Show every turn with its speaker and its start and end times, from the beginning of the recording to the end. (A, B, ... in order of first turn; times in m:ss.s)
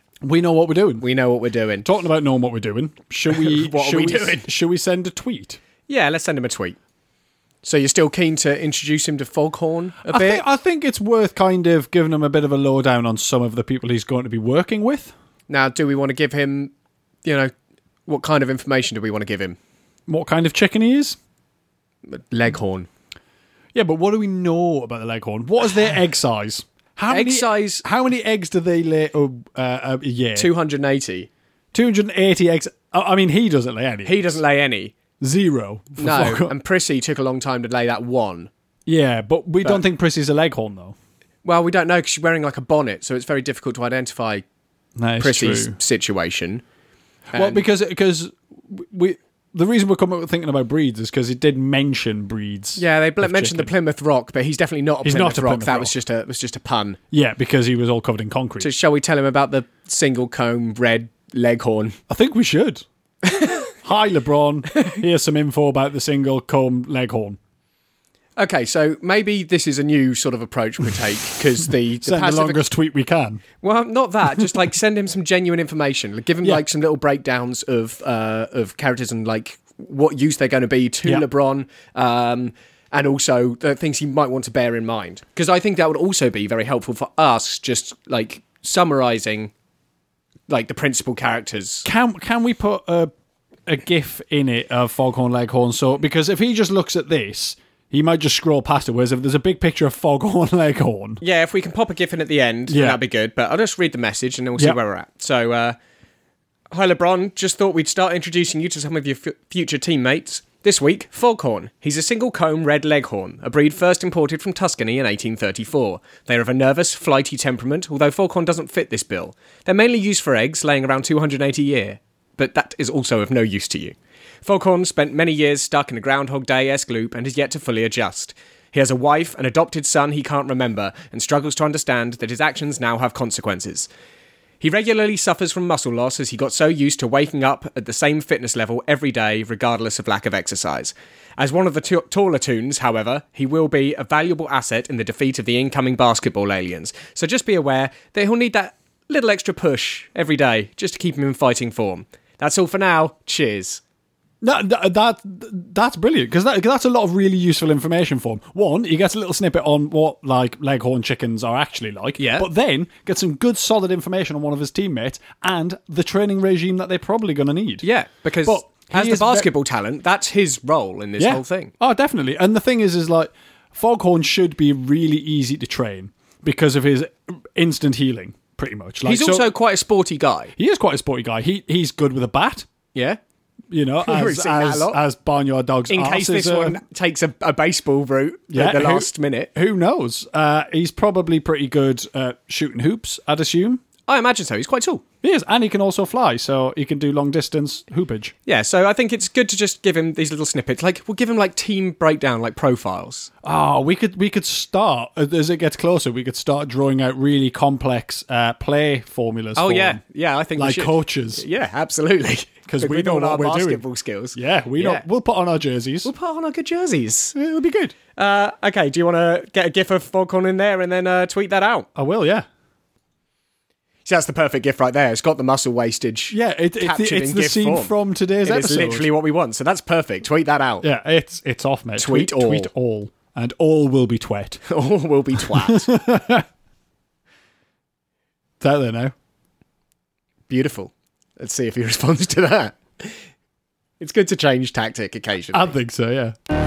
0:00.2-0:01.0 A
0:01.0-0:01.8 B
0:01.8-0:05.6 A
0:03.3-0:04.5 B
0:05.9-0:06.8 B
0:07.6-0:10.4 B
0:10.0-0:15.1 A
0:15.5-0:16.7 B
0:17.2-0:17.5 B
0:18.1-0:19.6 B
0:20.1-0:21.2 A
0:22.1-0:22.9 B
0:23.7-0:30.5 A
0:27.1-0:27.8 B
0:30.4-0:31.3 B
0:31.7-0:34.4 A
0:34.0-0:34.9 B
0:35.2-0:36.5 A
0:36.0-0:38.5 B
0:38.9-0:40.9 A
0:41.4-0:44.4 B
0:45.0-0:45.8 A
0:45.2-0:46.6 B
0:47.3-0:47.6 B
0:47.3-0:53.7 A
0:52.8-0:57.0 B
0:55.0-0:55.9 A
0:57.1-0:58.7 A
0:58.6-1:02.0 B
1:02.1-1:02.8 A
1:03.2-1:03.7 B
1:03.8-1:07.4 A
1:08.4-1:12.6 B
1:12.0-1:13.4 A
1:13.6-1:29.5 B
1:30.5-1:31.8 B
1:31.8-1:33.1 A
1:33.7-1:41.2 A
1:41.2-1:45.8 B
1:42.7-1:43.0 A
1:46.7-2:13.9 B
2:14.6-2:33.8 B
2:34.4-2:47.8 A
2:42.2-2:42.5 B
2:47.8-2:51.7 B
2:48.4-2:49.5 A
2:51.2-2:59.5 A
2:59.0-3:00.5 B
3:00.6-3:02.7 A
3:02.9-3:03.2 B
3:03.7-3:06.8 A
3:04.0-3:05.0 B
3:05.9-3:09.5 B
3:08.5-3:13.8 A
3:14.1-3:15.0 B
3:15.2-3:18.3 A
3:18.4-3:23.3 B
3:23.4-3:30.0 A
3:29.6-3:35.0 B
3:30.6-3:31.4 A
3:32.7-3:33.8 A
3:34.3-3:36.1 A
3:36.0-3:37.3 B
3:37.3-3:37.9 A
3:38.2-3:41.9 B
3:41.9-3:42.4 A
3:44.0-3:50.8 B
3:46.3-3:49.1 A
3:50.8-3:54.6 A
3:52.0-3:52.7 B
3:54.7-3:55.9 B
3:55.6-3:56.4 A
3:58.6-3:59.1 A
4:00.5-4:03.2 B
4:04.0-4:05.7 B
4:05.5-4:06.3 A